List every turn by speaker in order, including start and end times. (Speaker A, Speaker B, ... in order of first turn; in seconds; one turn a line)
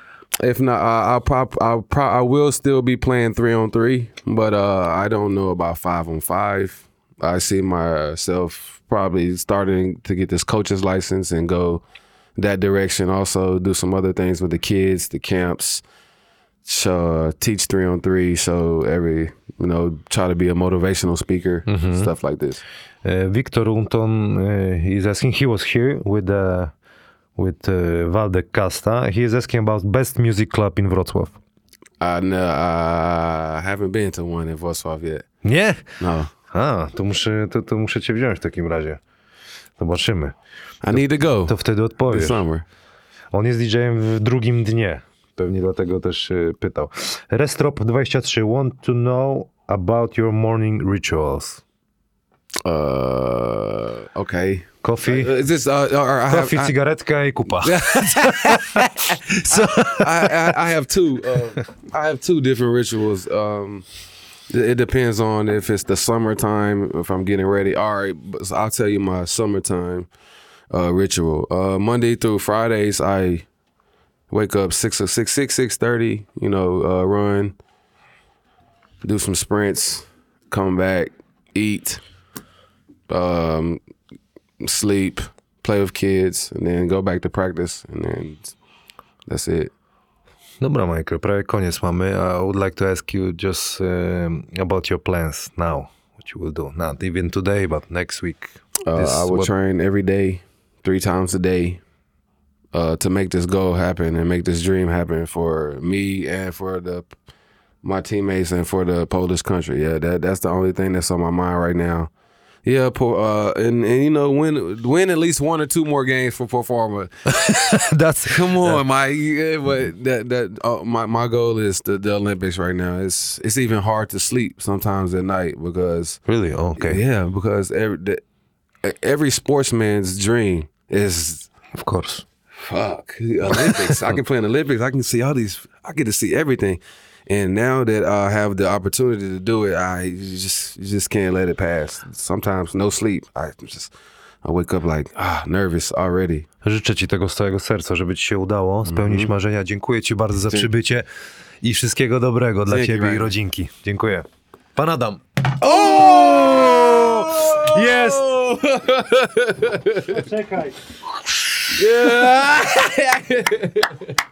Speaker A: 0.4-11.8
Speaker A: 12.4-15.8
Speaker A: 16.6-22.6
Speaker B: 21.7-22.1
Speaker B: 23.0-26.7
Speaker B: 27.4-31.4
Speaker A: 32.0-35.3
Speaker B: 35.4-35.8
Speaker A: 36.0-36.3
Speaker B: 36.5-39.0
Speaker B: 39.8-40.4
Speaker A: 40.8-41.5
Speaker B: 40.9-42.4
Speaker A: 42.1-42.6
Speaker B: 43.3-51.6
Speaker A: 52.6-56.7
Speaker B: 54.8-55.3
Speaker B: 56.3-60.6
Speaker A: 57.6-63.9
Speaker A: 64.5-70.1
Speaker A: 70.7-73.5
Speaker A: 74.3-77.6
Speaker A: 79.0-82.0
Speaker A: 83.1-83.8
Speaker A: 84.6-88.5
Speaker A: 89.3-89.7
Speaker B: 90.6-99.5
Speaker A: 98.9-101.8
Speaker A: 102.7-107.1
Speaker A: 107.8-112.1
Speaker A: 112.7-126.2
Speaker B: 117.3-118.8
Speaker B: 126.3-127.0
Speaker A: 126.8-128.2
Speaker A: 128.8-131.5
Speaker B: 131.8-132.2
Speaker A: 132.6-143.9
Speaker B: 133.5-134.2
Speaker A: 144.4-146.5
Speaker B: 146.6-151.1
Speaker A: 148.9-149.3
Speaker B: 151.6-155.2
Speaker A: 152.7-153.3
Speaker A: 155.6-160.2
Speaker B: 156.9-158.2
Speaker B: 159.9-160.9
Speaker A: 161.7-164.2
Speaker B: 162.0-162.3